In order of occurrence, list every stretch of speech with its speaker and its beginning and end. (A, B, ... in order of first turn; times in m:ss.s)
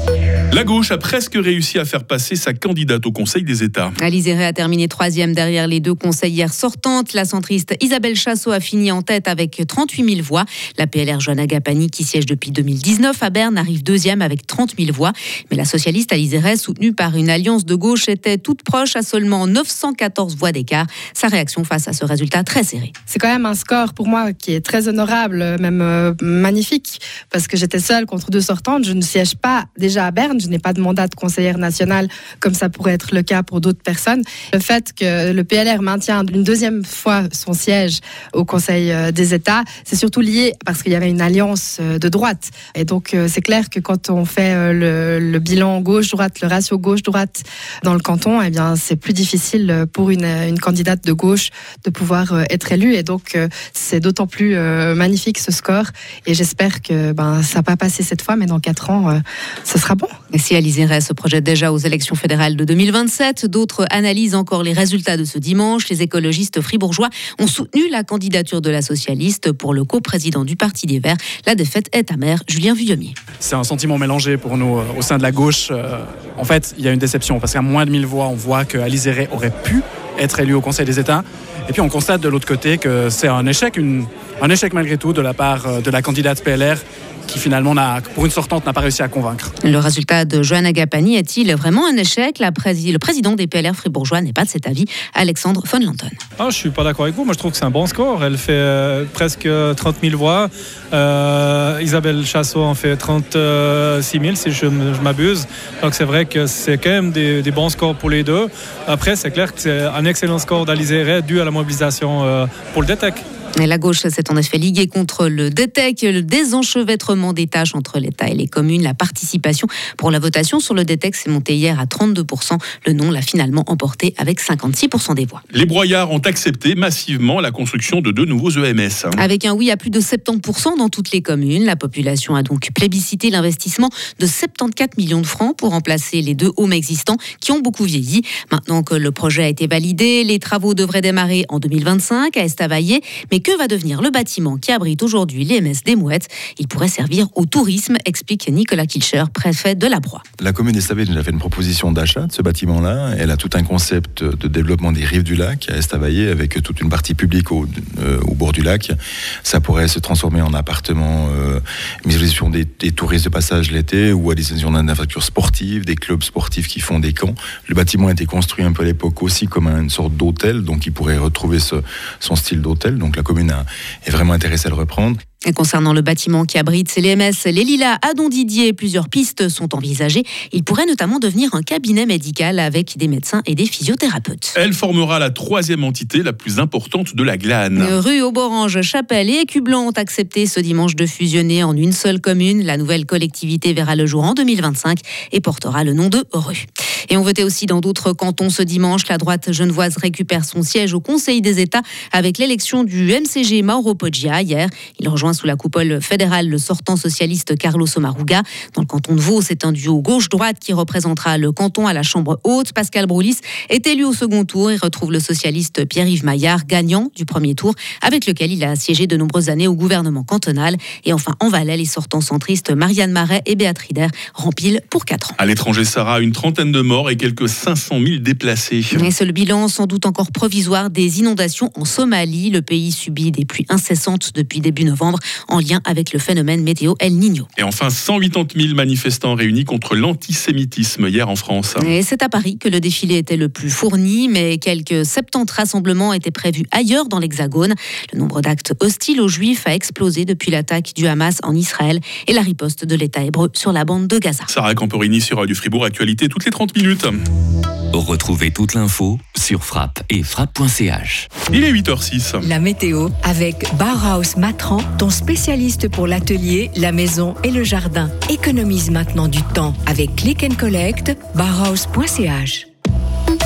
0:00.5-0:03.9 A
0:04.0-0:22.9 B
0:23.1-1:00.1 C
1:00.3-1:13.1 B
1:13.4-1:29.5 D
1:29.6-1:36.2 B
1:36.4-1:53.2 E
1:53.6-2:05.4 B
2:05.5-2:09.2 A
2:09.2-2:30.2 B
2:30.4-2:55.2 F
2:55.5-3:04.5 B
3:04.6-3:08.0 A
3:07.8-3:45.3 B
3:45.4-3:49.1 A
3:48.9-3:57.5 B
3:57.6-4:01.9 A
4:01.8-4:14.5 B
4:14.5-4:17.2 A
4:17.9-4:21.3 G
4:21.5-4:22.5 A
4:22.4-4:32.7 H